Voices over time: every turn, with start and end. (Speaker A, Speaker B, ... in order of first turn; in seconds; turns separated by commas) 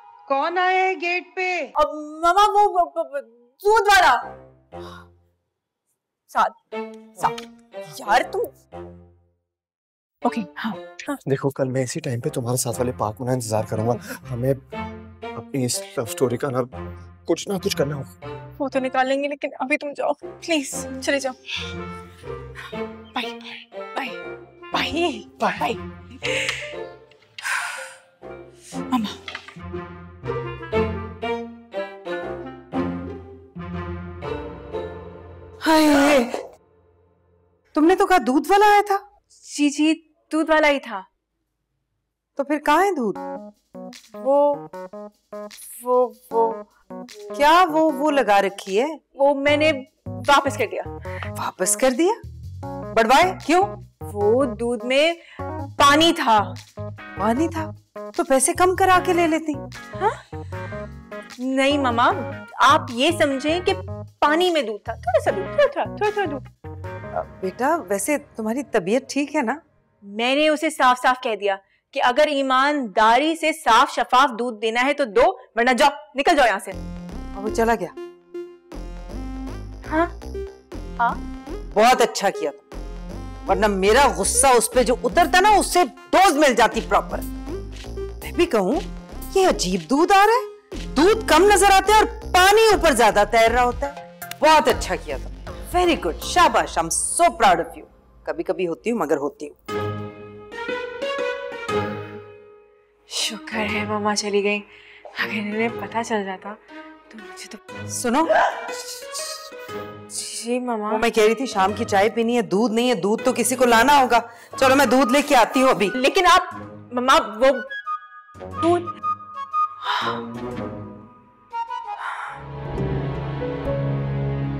Speaker A: 0.3-1.7, Speaker B: 1.8-4.2, Speaker B: 6.3-6.6, Speaker B: 7.9-8.5, Speaker B: 10.2-11.2, Speaker C: 11.2-14.6, Speaker C: 15.3-16.7, Speaker C: 17.3-18.1, Speaker B: 18.6-21.4, Speaker B: 23.1-24.2, Speaker B: 24.7-26.6, Speaker C: 25.4-25.6, Speaker B: 28.9-29.2, Speaker B: 35.6-36.4, Speaker A: 37.7-39.0, Speaker B: 39.4-41.0, Speaker A: 42.4-43.2, Speaker B: 44.2-44.6, Speaker B: 45.8-46.6, Speaker A: 47.3-49.0, Speaker B: 49.1-50.9, Speaker A: 51.3-52.2, Speaker A: 52.9-53.8, Speaker B: 54.0-55.2, Speaker B: 55.8-56.6, Speaker A: 57.2-59.6, Speaker B: 61.4-66.4, Speaker A: 67.1-69.6, Speaker B: 70.0-76.8, Speaker A: 77.3-78.0, Speaker B: 79.9-80.1, Speaker A: 81.7-82.7, Speaker A: 83.5-87.3, Speaker A: 88.2-99.6, Speaker B: 103.1-106.6, Speaker B: 107.1-107.6, Speaker A: 107.9-108.3, Speaker B: 110.1-111.0, Speaker A: 110.9-115.9, Speaker B: 116.0-117.7, Speaker B: 118.6-118.9, Speaker B: 119.9-120.1